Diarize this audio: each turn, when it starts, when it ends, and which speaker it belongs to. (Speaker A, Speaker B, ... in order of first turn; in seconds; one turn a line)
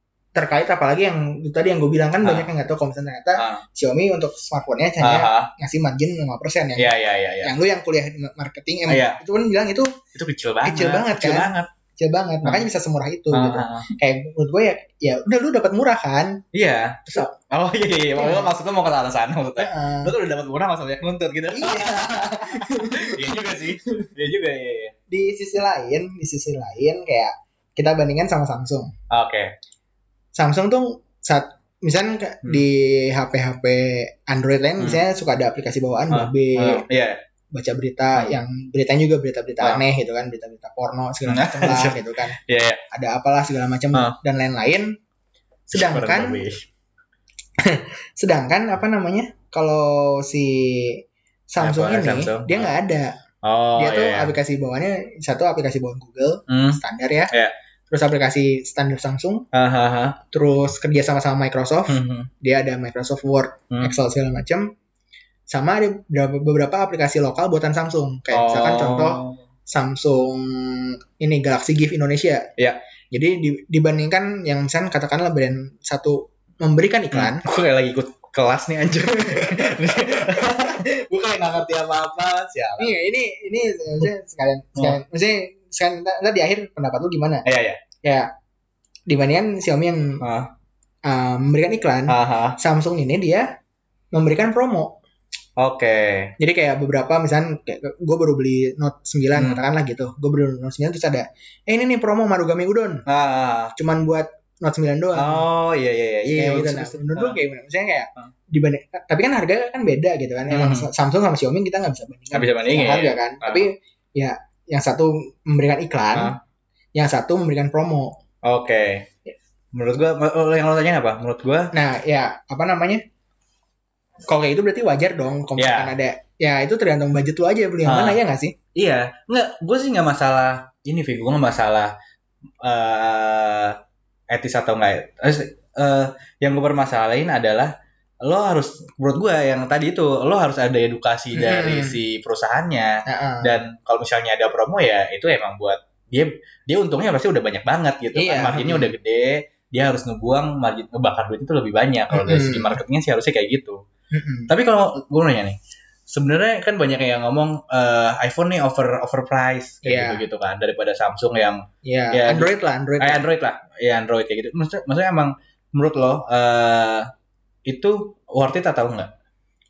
Speaker A: 0.3-6.9
Speaker B: 2.2-2.5
Speaker B: 3.4-3.6
Speaker B: 5.0-5.5
Speaker B: 6.8-7.5
Speaker A: 7.4-9.9
Speaker B: 8.9-9.2
Speaker B: 10.1-11.7
Speaker A: 10.6-16.4
Speaker B: 13.3-13.9
Speaker B: 16.5-24.9
Speaker A: 18.2-18.5
Speaker A: 19.6-20.1
Speaker A: 21.5-23.5
Speaker A: 25.1-28.9
Speaker B: 29.1-29.5
Speaker A: 30.3-36.8
Speaker B: 36.1-37.2
Speaker A: 37.5-42.4
Speaker B: 41.2-42.8
Speaker A: 42.9-44.9
Speaker A: 45.7-46.4
Speaker B: 45.7-46.6
Speaker A: 47.6-53.2
Speaker B: 51.6-52.7
Speaker B: 53.4-54.3
Speaker A: 53.8-57.3
Speaker B: 56.5-56.8
Speaker A: 57.9-59.4
Speaker B: 59.5-60.2
Speaker A: 60.3-64.7
Speaker B: 61.9-62.3
Speaker A: 65.5-72.5
Speaker B: 68.3-69.4
Speaker A: 73.1-77.4
Speaker B: 77.1-82.9
Speaker A: 79.2-80.5
Speaker A: 82.8-87.4
Speaker B: 87.4-87.8
Speaker A: 88.0-88.3
Speaker A: 89.1-90.2
Speaker B: 90.2-90.5
Speaker A: 91.0-93.5
Speaker B: 92.1-92.6
Speaker A: 94.1-95.0
Speaker B: 95.6-96.3
Speaker A: 96.4-103.0
Speaker B: 99.3-99.6
Speaker B: 103.1-103.7
Speaker A: 103.8-105.4
Speaker B: 105.1-107.4
Speaker A: 106.3-116.3
Speaker B: 110.5-110.9
Speaker B: 112.3-113.7
Speaker B: 116.1-116.4
Speaker A: 116.9-118.2
Speaker B: 118.4-119.1
Speaker B: 119.7-121.7
Speaker A: 121.7-123.0
Speaker A: 124.2-128.6
Speaker B: 125.6-125.9
Speaker B: 127.8-128.2
Speaker B: 128.8-131.9
Speaker B: 132.6-133.8
Speaker B: 134.3-137.7
Speaker B: 138.2-153.8
Speaker A: 141.3-142.0
Speaker A: 143.1-143.5
Speaker A: 148.1-148.9
Speaker A: 152.1-152.8
Speaker A: 154.1-154.5
Speaker B: 154.5-167.1
Speaker A: 159.8-160.2
Speaker A: 161.8-163.2
Speaker B: 167.7-169.1